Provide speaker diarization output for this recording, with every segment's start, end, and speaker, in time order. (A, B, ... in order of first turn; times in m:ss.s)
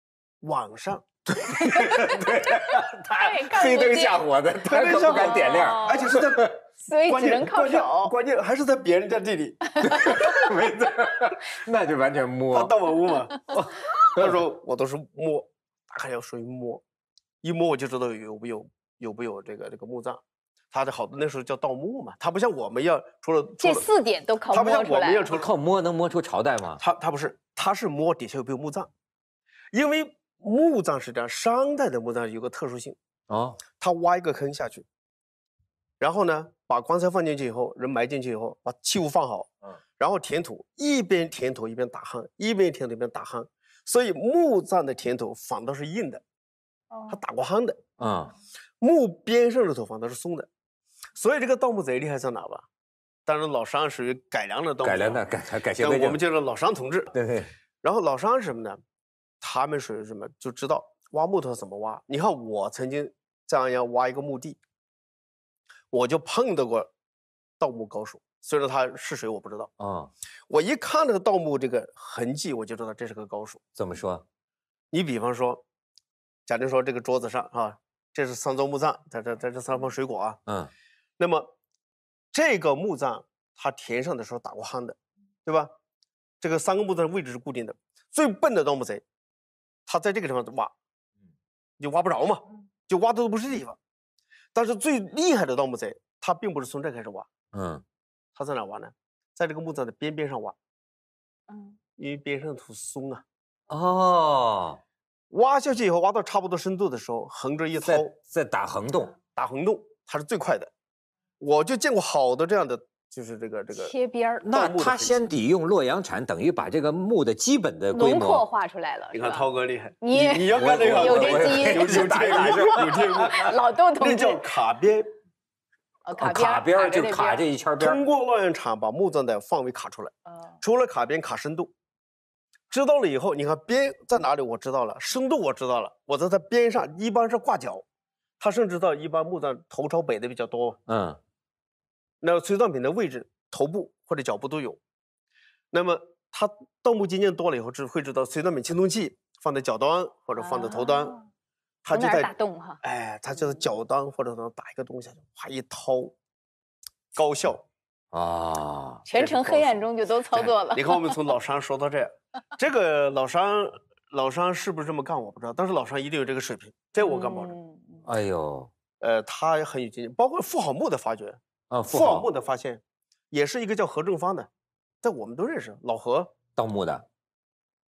0:00.4-0:01.1 A
0:01.3-0:06.5 B
0:03.2-0:04.2 C
0:04.6-0:09.7 A
0:05.0-0:06.2 C
0:06.8-0:08.1 C
0:09.8-0:10.4 C
0:09.8-0:12.7 B
0:12.5-0:16.8 A
0:17.4-0:20.2 A
0:20.7-0:23.9 A
0:23.6-0:25.3 C
0:24.5-0:25.5 A
0:25.3-0:26.8 B
0:26.8-0:28.9 A
0:29.7-0:33.0 A
0:33.3-0:33.6 B
0:33.8-0:34.8 A
0:36.0-0:46.2 A
0:46.9-0:47.2 C
0:47.1-0:47.8 A
0:48.0-0:48.3 B
0:48.8-0:50.5 A
0:51.2-0:52.7 A
0:53.2-0:55.2 A
0:54.8-0:56.2 B
0:55.8-0:57.1 A
0:57.1-0:57.5 B
0:57.8-0:58.8 A
0:59.4-1:04.6 A
1:05.9-1:06.9 A
1:07.6-1:09.7 A
1:09.8-1:10.1 B
1:10.5-1:13.6 A
1:13.8-1:14.2 B
1:14.9-1:15.6 A
1:16.5-1:20.4 A
1:20.5-1:20.7 B
1:21.2-1:21.5 A
1:22.3-1:25.7 A
1:26.4-1:29.0 A
1:29.9-1:30.7 A
1:31.8-1:33.8 A
1:34.5-1:37.3 A
1:37.5-1:37.8 B
1:38.4-1:40.6 A
1:41.5-1:41.8 C
1:42.0-1:43.2 A
1:43.7-1:44.8 B
1:45.3-1:48.1 A
1:47.8-1:49.2 B
1:49.4-1:50.7 A
1:51.4-1:53.9 A
1:53.7-1:54.4 C
1:54.4-1:58.4 B
1:54.5-1:55.2 A
1:57.9-1:59.5 C
1:59.1-2:05.1 A
2:00.0-2:04.4 C
2:00.5-2:03.5 B
2:06.1-2:07.4 C
2:06.1-2:08.0 B
2:07.8-2:11.7 A
2:12.7-2:17.8 A
2:18.4-2:20.8 A
2:20.9-2:21.2 B
2:22.2-2:24.8 A
2:25.7-2:31.2 A
2:30.4-2:31.2 C
2:31.8-2:36.1 A
2:31.9-2:32.8 C
2:33.4-2:33.7 C
2:37.2-2:37.6 A
2:38.1-2:39.0 B
2:39.0-2:41.3 C
2:39.2-2:47.6 A
2:47.0-2:48.0 C
2:48.1-2:48.7 B
2:49.0-2:54.5 A
2:51.7-2:52.3 B
2:55.0-2:56.3 A
2:56.6-2:57.1 B